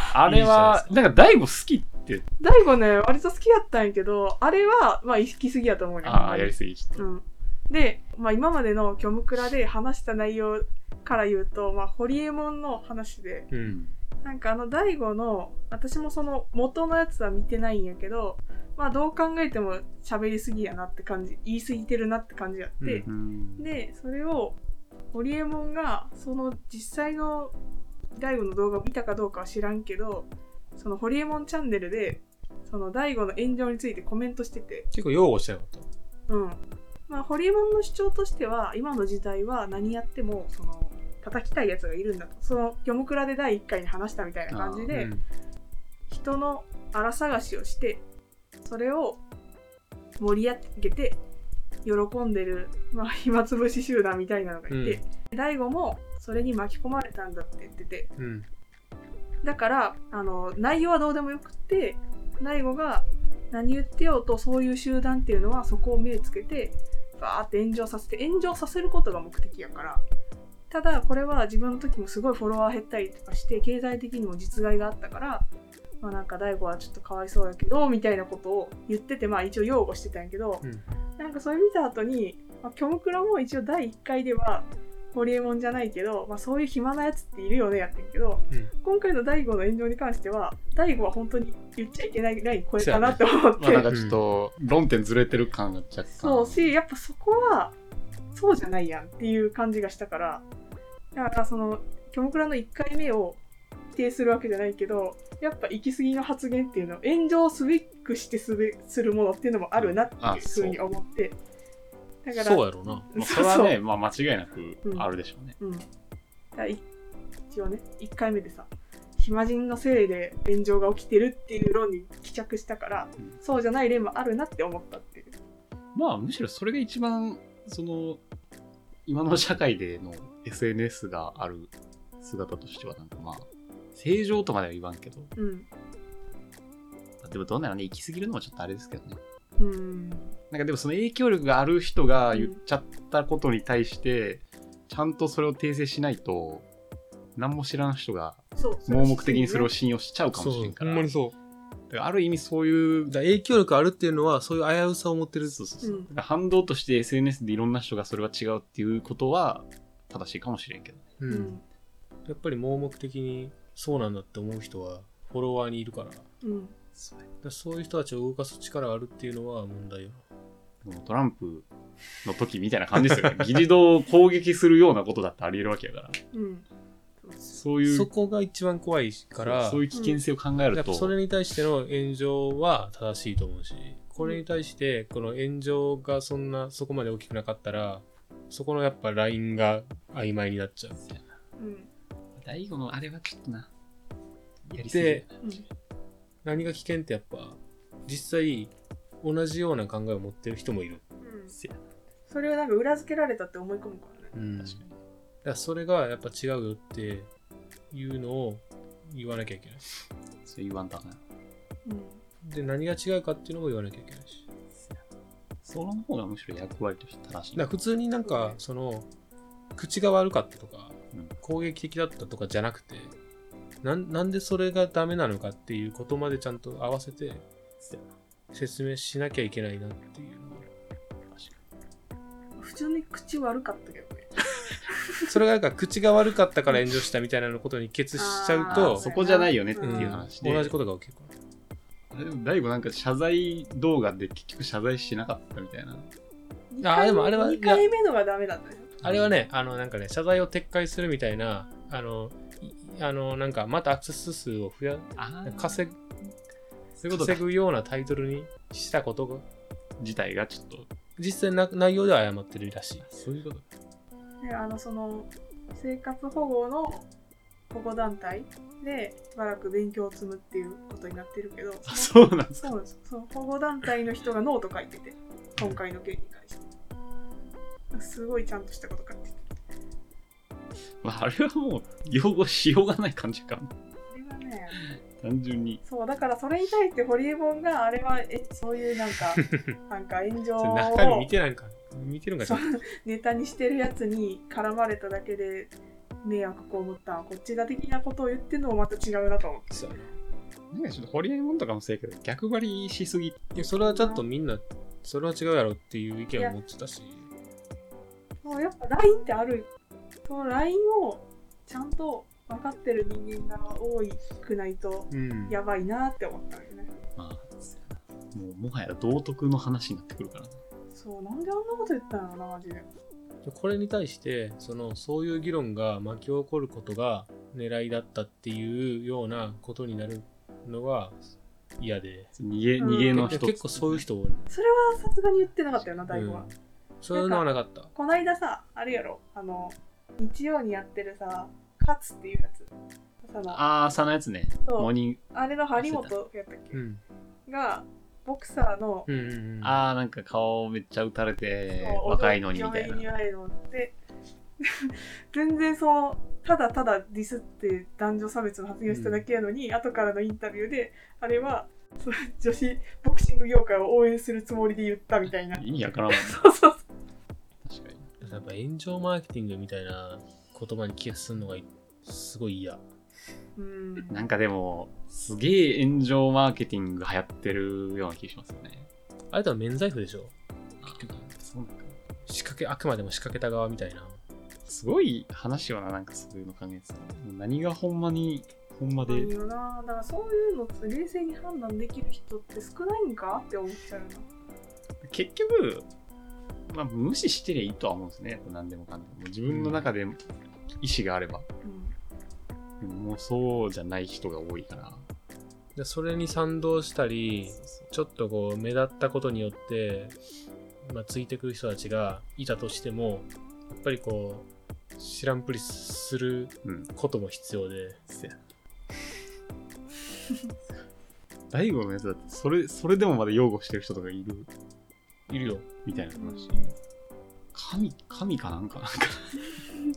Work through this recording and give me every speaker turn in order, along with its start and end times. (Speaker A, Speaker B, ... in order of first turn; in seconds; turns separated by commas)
Speaker A: 0.1-2.2, Speaker B: 0.1-1.0, Speaker C: 2.4-13.5, Speaker A: 6.0-7.1, Speaker B: 13.5-13.8, Speaker A: 13.6-14.0, Speaker C: 14.2-24.6, Speaker B: 22.8-23.1, Speaker A: 23.1-23.7, Speaker C: 25.1-27.6, Speaker C: 28.1-34.9, Speaker B: 34.9-35.9, Speaker C: 36.3-45.1, Speaker A: 44.5-44.9, Speaker B: 44.9-45.2, Speaker C: 46.1-48.0, Speaker C: 48.6-49.2, Speaker C: 50.2-51.2, Speaker C: 51.8-58.1, Speaker B: 54.7-55.0, Speaker B: 58.2-58.5, Speaker C: 59.4-70.0, Speaker C: 70.7-75.5, Speaker C: 76.0-80.7, Speaker C: 81.2-93.9, Speaker B: 92.8-93.2, Speaker A: 93.6-96.7, Speaker B: 93.9-94.2, Speaker C: 96.2-97.8, Speaker C: 98.3-100.5, Speaker C: 101.1-103.4, Speaker C: 103.9-111.4, Speaker A: 109.8-110.8, Speaker C: 112.2-113.8, Speaker B: 112.3-113.1, Speaker A: 112.8-115.6, Speaker C: 114.8-115.9, Speaker C: 116.5-116.8, Speaker C: 117.5-125.4, Speaker A: 125.9-128.2, Speaker A: 129.1-135.3, Speaker C: 135.4-135.7, Speaker A: 137.2-139.2, Speaker C: 139.6-140.4, Speaker A: 140.5-146.7, Speaker C: 142.3-142.6, Speaker A: 147.4-151.1, Speaker C: 148.6-149.7, Speaker B: 150.3-151.3, Speaker A: 151.9-153.2, Speaker B: 153.1-155.7, Speaker A: 155.5-161.1, Speaker C: 155.8-156.1, Speaker B: 161.2-161.6, Speaker C: 161.3-161.6, Speaker B: 162.3-166.3, Speaker C: 166.4-166.8, Speaker A: 167.0-167.3, Speaker B: 167.4-170.2, Speaker A: 170.8-171.7, Speaker A: 172.2-176.2, Speaker B: 173.0-173.6, Speaker C: 176.3-176.7, Speaker C: 177.2-177.6, Speaker A: 177.5-178.1, Speaker B: 177.8-180.0, Speaker A: 179.4-181.1, Speaker C: 179.9-180.2, Speaker B: 180.7-191.0, Speaker A: 191.0-191.2, Speaker C: 191.6-191.9, Speaker A: 192.4-193.7, Speaker A: 194.7-195.6, Speaker B: 194.8-195.3, Speaker B: 196.4-201.1, Speaker C: 201.2-201.6, Speaker A: 201.5-201.8, Speaker C: 202.3-204.3, Speaker B: 204.3-204.8, Speaker A: 204.6-205.0, Speaker B: 205.4-207.3, Speaker B: 207.9-209.8, Speaker A: 210.4-211.2, Speaker C: 211.8-212.2, Speaker B: 212.4-214.4, Speaker A: 214.7-215.0, Speaker A: 215.6-217.8, Speaker B: 217.5-219.1, Speaker C: 218.2-218.6, Speaker B: 219.8-223.2, Speaker B: 223.8-227.5, Speaker A: 227.8-228.1, Speaker B: 228.5-230.7, Speaker A: 231.3-231.6, Speaker C: 232.6-235.3, Speaker B: 235.3-239.1, Speaker C: 238.2-240.2, Speaker A: 238.7-240.7, Speaker B: 239.8-241.3, Speaker A: 242.1-246.1, Speaker C: 246.7-249.0, Speaker B: 246.8-247.8, Speaker B: 249.0-256.0, Speaker A: 249.0-249.4, Speaker A: 255.2-256.0, Speaker A: 257.0-257.4, Speaker B: 257.1-259.5, Speaker A: 260.0-260.9, Speaker B: 261.2-263.1, Speaker A: 263.0-263.7, Speaker C: 264.4-267.1, Speaker C: 267.7-276.7, Speaker A: 271.9-272.8, Speaker C: 277.9-279.4, Speaker A: 281.0-283.7, Speaker C: 284.1-284.8, Speaker A: 285.0-285.8, Speaker C: 285.8-291.3, Speaker B: 289.4-289.8, Speaker B: 290.6-292.9, Speaker C: 292.4-295.7, Speaker C: 296.2-300.1, Speaker B: 299.7-300.2, Speaker A: 300.7-303.7, Speaker B: 303.5-307.3, Speaker C: 303.7-304.3, Speaker C: 308.4-309.7, Speaker C: 310.3-316.9, Speaker B: 315.1-315.6, Speaker A: 317.2-320.6, Speaker C: 320.9-322.9, Speaker B: 323.4-331.2, Speaker B: 331.8-332.3, Speaker A: 332.4-334.1, Speaker C: 332.8-333.3, Speaker B: 333.1-334.5, Speaker C: 334.5-336.5, Speaker B: 336.1-337.9, Speaker C: 337.1-342.7, Speaker C: 343.2-343.6, Speaker A: 343.5-345.2, Speaker C: 344.6-346.8, Speaker A: 345.8-346.1, Speaker B: 346.7-347.0, Speaker C: 347.5-349.1, Speaker B: 349.1-349.8, Speaker A: 349.6-353.1, Speaker C: 351.8-353.9, Speaker C: 354.6-366.8, Speaker B: 358.9-359.2, Speaker A: 365.5-366.4, Speaker A: 367.6-368.1, Speaker B: 368.2-372.8, Speaker C: 373.6-374.2, Speaker A: 374.1-378.9, Speaker B: 379.3-381.3, Speaker A: 380.8-382.0, Speaker B: 382.3-384.2, Speaker A: 384.6-389.3, Speaker C: 389.1-394.3, Speaker A: 395.0-395.9, Speaker A: 396.7-400.3, Speaker B: 399.5-399.9, Speaker A: 400.8-401.5, Speaker C: 401.6-401.9, Speaker A: 402.8-405.1, Speaker B: 405.8-410.2, Speaker A: 407.5-407.9, Speaker B: 410.8-418.0, Speaker A: 416.6-416.9, Speaker A: 418.1-418.4, Speaker A: 421.5-424.5, Speaker B: 425.3-425.7, Speaker A: 425.8-426.8, Speaker C: 426.0-426.7, Speaker A: 427.5-429.5